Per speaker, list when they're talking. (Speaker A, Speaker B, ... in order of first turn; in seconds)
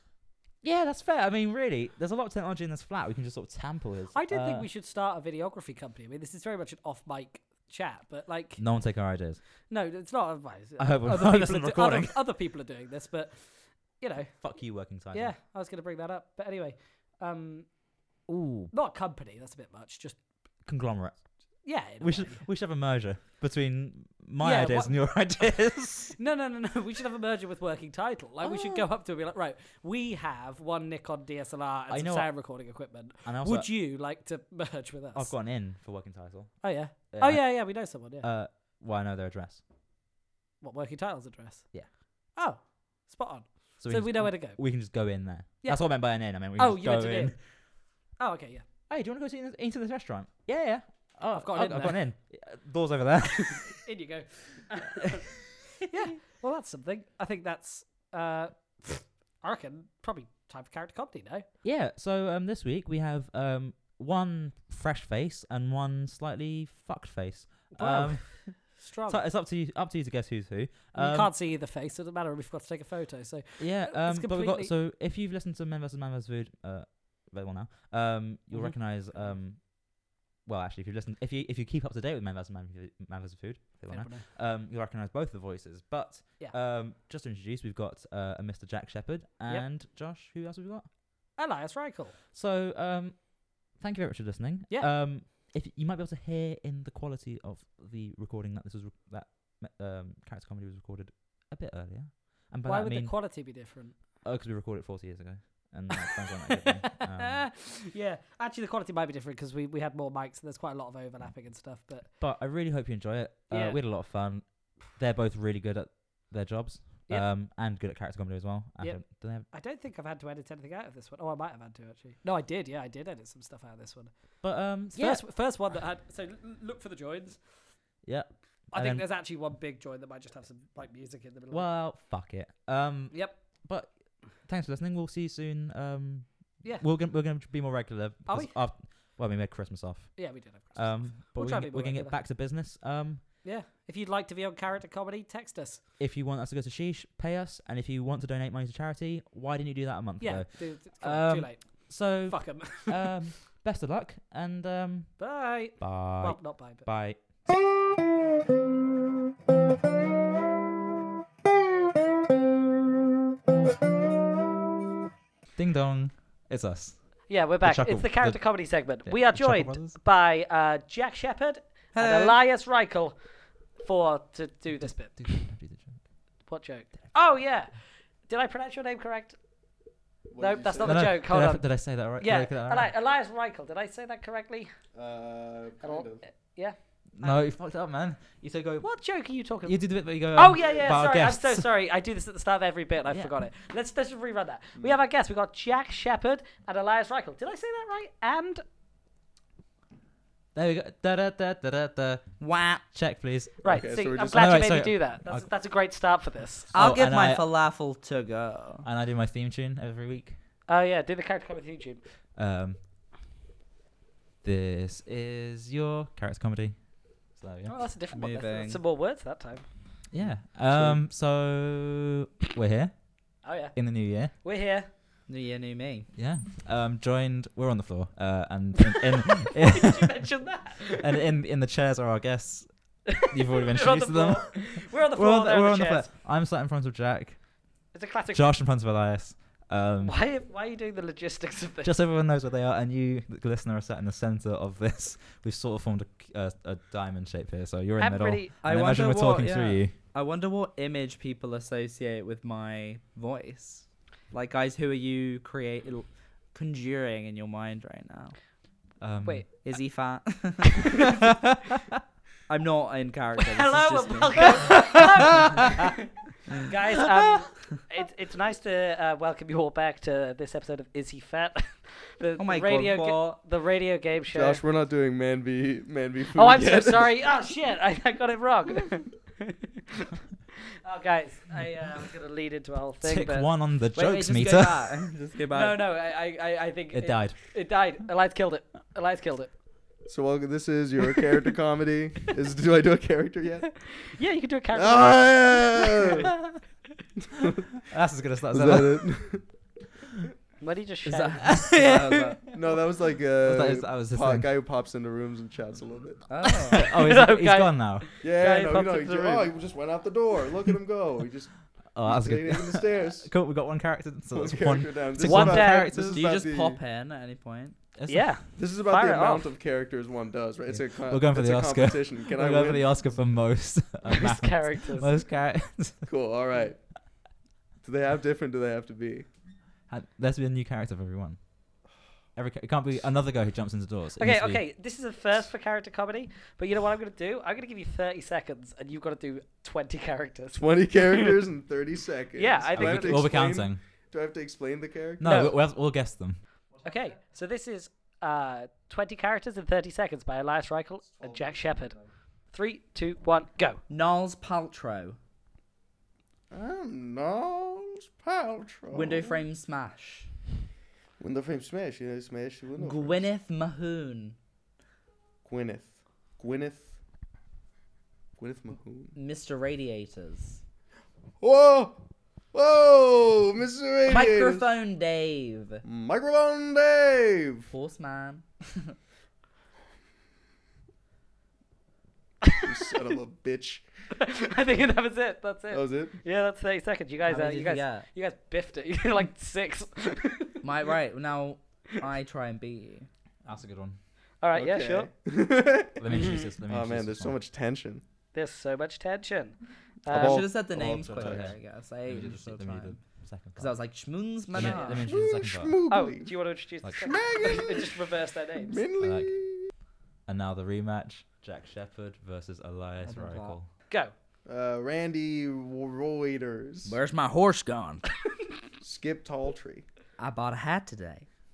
Speaker A: 0.6-4.7, 8.6-9.4, 10.8-12.2, 14.4-15.3, 18.3-18.7, 20.6-26.1, 28.4-28.8, 31.9-32.3, 33.2-33.7, 35.1-39.6, 43.8-47.4, 48.9-53.8, 55.8-56.1, 61.6-71.3, 73.6-90.9, 92.3-103.2, 104.2-107.5, 112.2-119.5, 124.4-125.2, 128.0-129.1, 131.5-143.2, 146.0-157.2, 165.6-170.0, 174.8-176.1, 180.8-182.9, 187.2-188.9, 189.6-191.7, 200.5-205.5, 206.7-207.4, 208.8-210.4, 212.3-212.8, 214.4-217.7, 220.1-224.3, 226.1-230.2, 230.9-237.5, 238.3-240.1, 241.8-249.9, 259.0-259.4, 283.0-285.0, 286.9-287.4, 297.9-299.1, 301.4-302.0, 303.4-304.5, 306.6-308.1, 311.9-316.2, 317.9-318.3, 320.7-326.1, 329.9-331.6, 332.3-334.6, 342.7-343.8, 345.2-346.4, 393.4-394.0, 396.0-397.4, 400.9-403.8, 404.5-405.7, 409.0-409.3, 410.2-413.7
Speaker B: 4.1-8.6, 9.7-17.8, 18.7-20.2, 21.6-22.4, 24.4-25.1, 26.1-35.3, 36.6-38.3, 40.6-44.6, 45.6-47.5, 48.1-48.6, 51.3-52.0, 53.5-55.3, 55.9-61.4, 67.7-69.2, 70.9-74.7, 78.5-79.4, 83.9-84.3, 91.3-92.2, 102.6-104.0, 107.0-112.1, 113.5-113.8, 118.8-127.5, 128.7-131.7, 133.1-133.4, 138.2-138.6, 140.2-142.2, 143.4-145.8, 150.2-153.1, 155.2-156.9, 167.3-173.2, 173.7-175.4, 176.5-179.4, 180.4-184.7, 185.8-187.3, 188.8-198.6, 203.6-206.7, 210.7-212.0, 217.7-219.7, 223.4-224.9, 229.4-231.2, 233.1-236.1, 237.9-238.5, 240.0-241.9, 248.0-248.5, 259.2-259.6, 263.4-274.6, 276.3-279.8, 280.7-283.5, 285.5-289.5, 293.8-296.3, 300.6-302.4, 306.7-309.5, 315.2-315.9, 318.1-319.5, 324.1-325.1, 334.2-341.4, 342.3-343.2, 345.2-345.5, 346.8-352.0, 352.5-353.8, 384.1-390.6, 394.4-395.1, 396.1-396.4, 398.3-400.5, 404.6-405.0, 405.9-408.8
Speaker C: 171.9-172.4, 202.4-202.8, 206.7-208.8, 218.1-218.8, 225.3-226.1, 248.6-258.4, 259.6-261.4, 262.5-265.8, 266.5-267.1, 272.4-273.3, 283.9-285.8, 301.1-302.4, 306.3-306.9, 315.9-317.8, 353.9-355.2, 358.9-360.3, 362.8-364.4, 369.1-370.6, 374.1-375.8, 377.7-378.9, 387.3-388.1, 390.6-393.1, 400.1-403.0, 403.6-405.0, 413.1-413.6, 416.8-418.0, 420.2-421.2
Speaker D: 180.3-181.2, 184.9-186.2, 190.6-191.0, 203.7-204.5, 220.7-221.0, 274.3-277.1, 290.1-293.7, 294.7-296.3, 297.4-297.7, 298.5-299.4, 302.5-306.2, 308.2-313.3, 314.3-316.8, 318.6-323.2, 326.1-326.9, 327.8-329.2, 340.5-345.5, 351.1-352.1, 356.5-359.4, 361.2-363.2, 365.4-366.9, 368.4-369.1, 371.4-372.0, 372.5-374.7, 375.8-377.7, 382.6-383.8, 385.7-386.1, 394.5-398.0, 400.1-401.5, 405.1-406.4, 407.0-408.1, 408.6-409.7, 414.4-416.9, 418.8-419.8